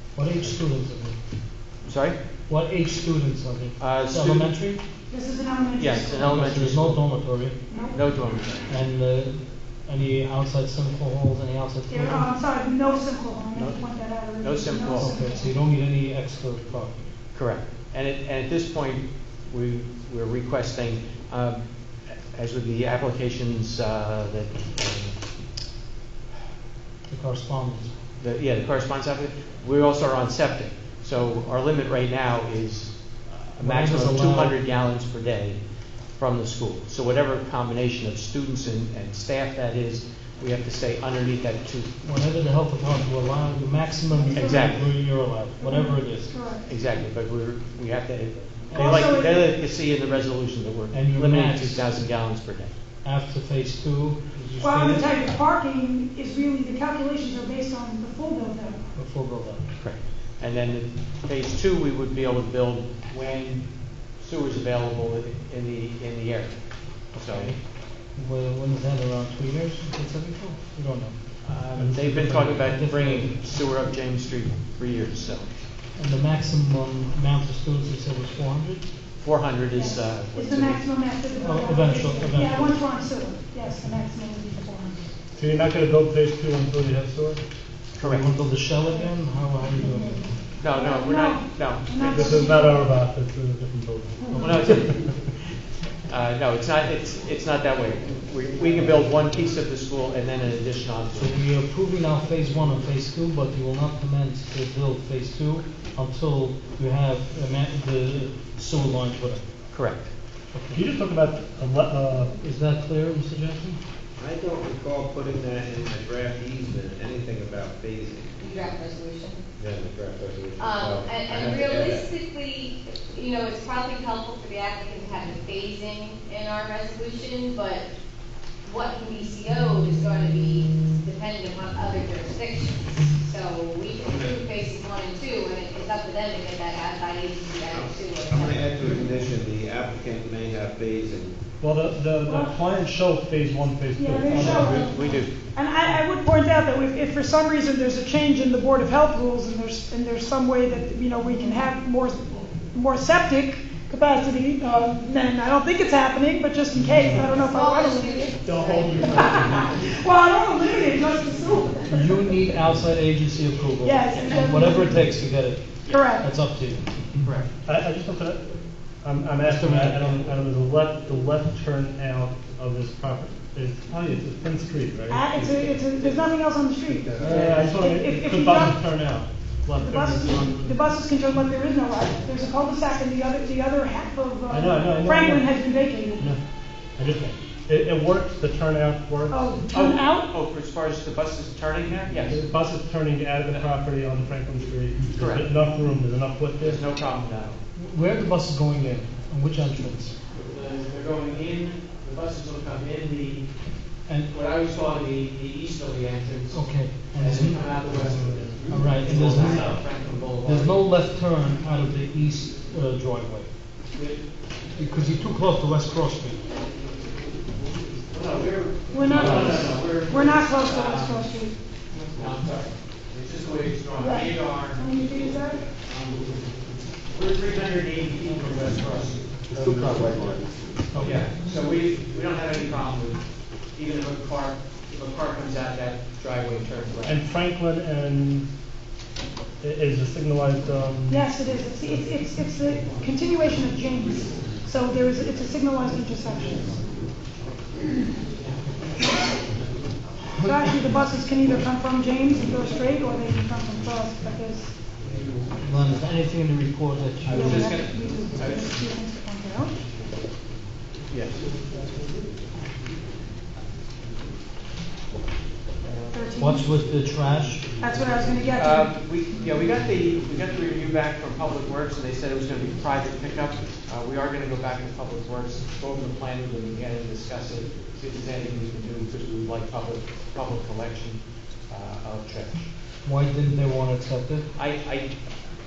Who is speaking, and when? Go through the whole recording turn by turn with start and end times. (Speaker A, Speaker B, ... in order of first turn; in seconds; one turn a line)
Speaker A: 0.1-1.2
Speaker B: 1.9-2.2
Speaker A: 2.5-4.8
Speaker B: 3.8-4.5
Speaker C: 5.1-6.4
Speaker B: 5.8-7.0
Speaker A: 6.2-7.6
Speaker C: 7.7-8.0
Speaker B: 7.9-8.8
Speaker A: 8.7-12.3
Speaker C: 11.9-15.6
Speaker B: 13.6-15.2
Speaker A: 14.9-17.1
Speaker B: 17.3-25.2
Speaker A: 27.1-27.9
Speaker B: 28.2-35.6
Speaker A: 33.6-34.6
Speaker B: 36.2-41.9
Speaker A: 42.0-46.3
Speaker C: 44.1-44.8
Speaker B: 44.3-44.8
Speaker C: 45.6-46.7
Speaker B: 46.7-52.7
Speaker C: 48.7-49.4
Speaker A: 50.9-51.9
Speaker A: 53.0-55.2
Speaker C: 54.6-58.9
Speaker A: 59.0-59.7
Speaker B: 59.8-67.5
Speaker A: 67.2-67.6
Speaker A: 68.1-71.2
Speaker B: 71.4-75.5
Speaker D: 71.8-72.6
Speaker A: 72.0-73.3
Speaker A: 76.0-78.9
Speaker B: 79.2-80.9
Speaker C: 79.8-85.1
Speaker A: 81.4-82.8
Speaker D: 85.4-87.4
Speaker A: 88.0-90.2
Speaker B: 88.0-88.3
Speaker C: 89.9-92.9
Speaker B: 90.6-92.5
Speaker D: 92.0-95.0
Speaker C: 94.2-94.7
Speaker B: 94.3-95.1
Speaker B: 96.1-101.4
Speaker A: 101.1-109.4
Speaker B: 109.7-110.1
Speaker A: 110.5-110.8
Speaker D: 110.7-112.3
Speaker A: 112.4-113.8
Speaker E: 114.2-118.8
Speaker F: 118.4-119.4
Speaker E: 119.6-122.2
Speaker F: 120.6-127.8
Speaker F: 128.6-139.0
Speaker E: 137.7-141.4
Speaker D: 141.6-144.9
Speaker C: 142.3-142.6
Speaker C: 144.0-158.4
Speaker A: 144.3-144.9
Speaker B: 144.8-145.3
Speaker A: 156.8-157.2
Speaker F: 157.3-159.0
Speaker D: 158.4-159.8
Speaker C: 158.9-162.5
Speaker A: 161.9-166.8
Speaker C: 163.8-165.1
Speaker B: 164.1-164.7
Speaker B: 165.8-166.1
Speaker C: 165.9-166.3
Speaker B: 167.2-167.5
Speaker D: 167.7-168.4
Speaker D: 169.0-175.5
Speaker A: 169.4-170.3
Speaker C: 175.1-178.8
Speaker B: 175.4-176.3
Speaker E: 176.9-177.7
Speaker D: 177.2-180.8
Speaker B: 177.2-177.8
Speaker C: 179.8-186.3
Speaker D: 184.5-185.5
Speaker D: 187.0-189.4
Speaker C: 189.3-190.3
Speaker B: 189.7-192.4
Speaker D: 192.2-196.8
Speaker B: 195.2-195.5
Speaker B: 196.6-197.6
Speaker A: 197.8-200.2
Speaker B: 200.3-203.5
Speaker B: 204.3-210.8
Speaker A: 206.5-207.7
Speaker D: 207.9-208.8
Speaker A: 208.7-209.9
Speaker A: 210.4-213.5
Speaker B: 213.9-214.2
Speaker A: 214.8-216.4
Speaker B: 218.1-221.3
Speaker C: 218.9-221.5
Speaker A: 219.2-219.6
Speaker B: 221.9-225.0
Speaker C: 224.0-225.6
Speaker B: 227.1-229.2
Speaker E: 229.5-230.4
Speaker A: 230.9-231.2
Speaker B: 231.0-233.2
Speaker B: 233.7-237.2
Speaker D: 237.1-238.5
Speaker D: 239.6-241.3
Speaker C: 241.1-246.8
Speaker A: 250.3-250.9
Speaker C: 250.4-254.8
Speaker A: 255.6-257.8
Speaker B: 257.3-258.8
Speaker C: 257.3-259.8
Speaker B: 261.1-261.4
Speaker B: 265.8-266.1
Speaker C: 266.1-266.7
Speaker A: 266.4-267.7
Speaker C: 267.8-268.9
Speaker B: 268.6-282.7
Speaker A: 283.1-284.5
Speaker B: 284.6-285.1